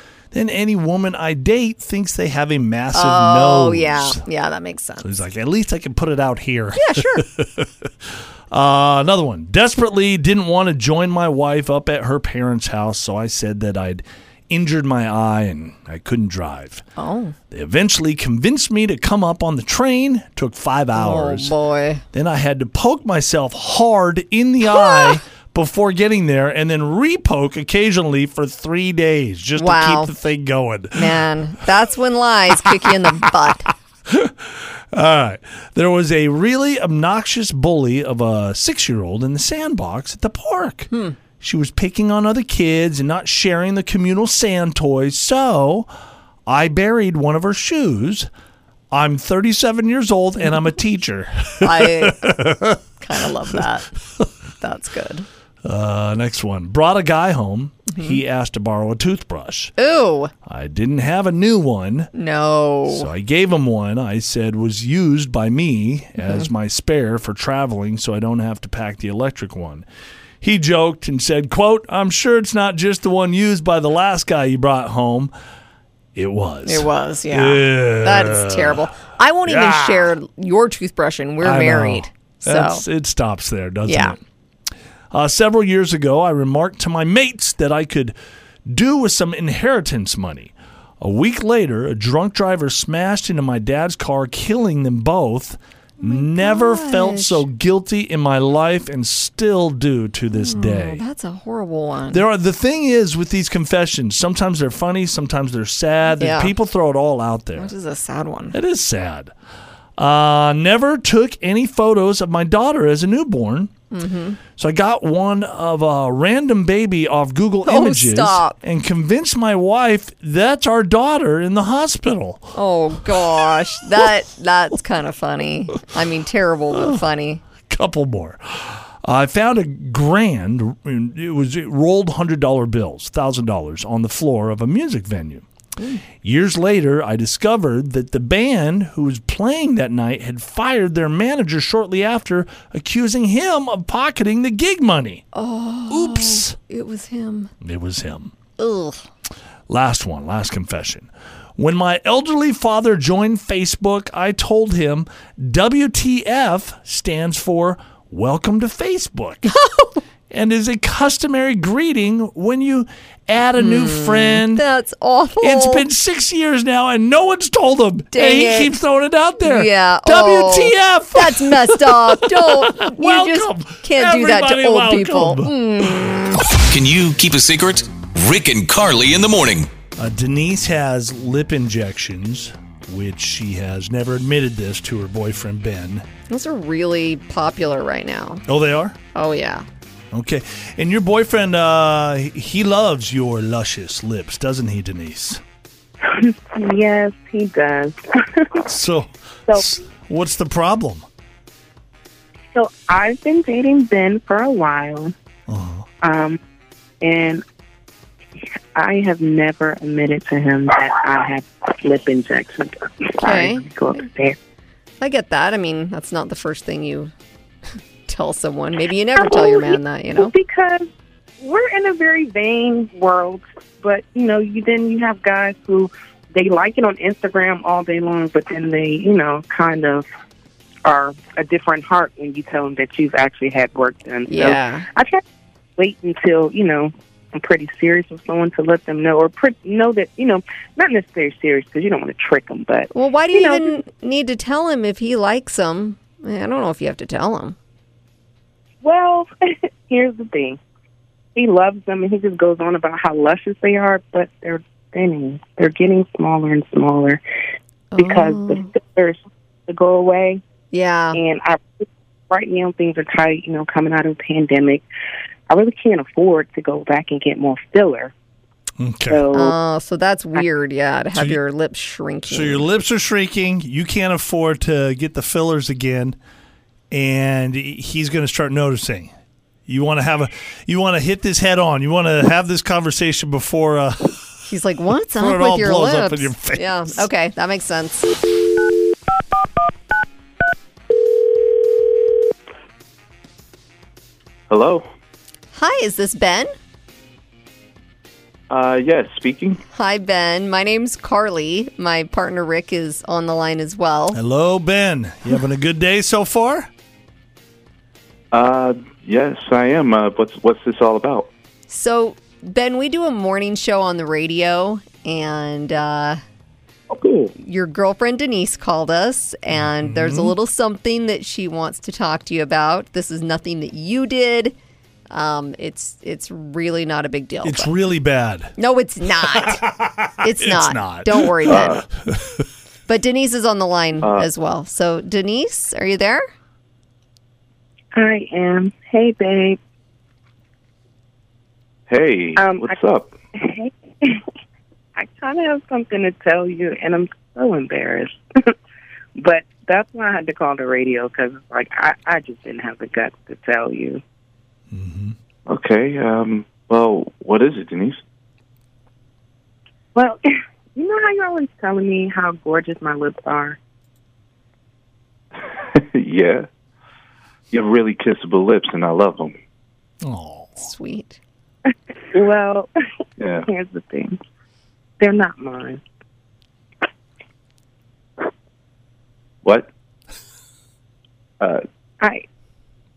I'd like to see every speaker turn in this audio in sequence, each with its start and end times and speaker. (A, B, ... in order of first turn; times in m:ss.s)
0:00.3-0:04.2 A
0:02.9-0:05.1 B
0:05.0-0:16.8 A
0:06.7-0:07.3 B
0:17.0-0:17.4 B
0:17.5-0:21.5 A
0:21.0-0:22.0 B
0:22.1-0:31.2 A
0:24.6-0:25.2 B
0:29.6-0:30.1 B
0:30.9-0:33.7 B
0:34.0-0:45.9 A
0:40.9-0:41.2 B
0:46.4-0:48.3 A
0:48.9-0:52.8 A
0:51.6-0:52.4 B
0:53.0-0:53.9 B
0:54.6-0:55.3 B
0:55.6-0:59.7 A
0:57.9-0:58.2 B
0:59.8-1:00.3 B
1:00.4-1:02.1 A
1:02.1-1:03.1 B
1:02.9-1:09.8 A
1:10.4-1:15.3 A
1:16.1-1:18.9 A
1:16.6-1:22.8 B
1:19.4-1:20.1 A
1:21.4-1:24.2 A
1:23.9-1:24.2 B
1:25.1-1:28.1 A
1:28.6-1:41.0 A
1:36.0-1:37.4 B
1:40.3-1:42.2 B
1:42.1-1:47.7 A
1:46.2-1:46.5 B
1:47.6-1:48.5 B
1:48.5-1:49.3 A
1:50.0-1:53.7 A
1:53.9-1:54.4 B
1:54.6-2:02.5 A
1:57.6-1:58.6 B
2:02.5-2:07.4 B
2:07.7-2:15.4 A
2:16.2-2:25.2 A
2:25.3-2:27.5 B
2:25.9-2:26.6 A
2:27.6-2:28.3 A
2:28.6-2:29.0 B
2:29.7-2:39.6 A
2:39.5-2:40.0 B
2:40.3-2:44.6 A
2:43.6-2:45.8 B
2:45.4-2:55.8 A
2:48.1-2:48.7 B
2:49.4-2:56.4 B
2:56.5-2:59.7 C
3:00.0-3:06.0 A
3:06.3-3:08.4 B
3:08.5-3:09.0 A
3:09.1-3:09.6 B
3:10.1-3:15.4 A
3:16.0-3:18.6 D
3:18.6-3:21.0 A
3:22.5-3:25.1 D
3:25.5-3:25.8 A
3:26.0-3:26.4 D
3:27.0-3:27.4 D
3:28.7-3:34.4 D
3:33.2-3:34.0 B
3:35.0-3:37.1 B
3:38.1-3:40.3 B
3:39.2-3:40.9 D
3:41.4-3:50.0 D
3:50.8-3:55.2 D
3:54.3-3:54.8 B
3:55.8-4:03.7 D
4:02.9-4:07.6 B
4:08.8-4:10.6 D
4:11.3-4:17.2 D
4:17.9-4:18.7 B
4:18.0-4:20.4 D
4:20.7-4:21.2 B
4:21.1-4:24.8 D
4:25.5-4:28.1 D
4:28.8-4:29.2 A
4:29.1-4:29.5 D
4:29.3-4:32.7 B
4:32.3-4:36.2 A
4:36.9-4:39.1 A
4:39.6-4:44.2 A
4:44.5-4:48.2 B
4:45.2-4:47.1 A
4:54.5-4:54.8 E
4:55.5-4:56.5 B
4:58.5-4:59.6 E
4:59.7-5:04.2 B
5:04.1-5:06.7 A
5:08.3-5:11.3 E
5:11.7-5:16.2 B
5:16.9-5:17.3 E
5:17.4-5:24.5 B
5:19.5-5:20.3 A
5:25.1-5:27.7 B
5:27.4-5:28.5 A
5:28.6-5:29.7 B
5:29.3-5:32.4 A
5:30.2-5:31.8 B
5:31.4-5:31.8 E
5:32.9-5:36.2 B
5:34.0-5:34.3 E
5:37.9-5:39.6 D
5:41.9-5:43.1 E
5:42.4-5:42.8 D
5:43.4-5:44.2 D
5:45.0-5:48.5 D
5:49.2-5:54.0 D
5:54.7-5:55.2 A
5:55.5-5:58.0 E
5:59.9-6:03.6 D
6:05.6-6:06.4 E
6:07.5-6:09.3 E
6:10.0-6:10.6 A
6:10.6-6:11.2 B
6:12.1-6:12.7 D
6:13.2-6:13.5 E
6:13.4-6:14.2 D
6:15.0-6:15.8 D
6:19.4-6:19.7 E
6:22.0-6:22.2 D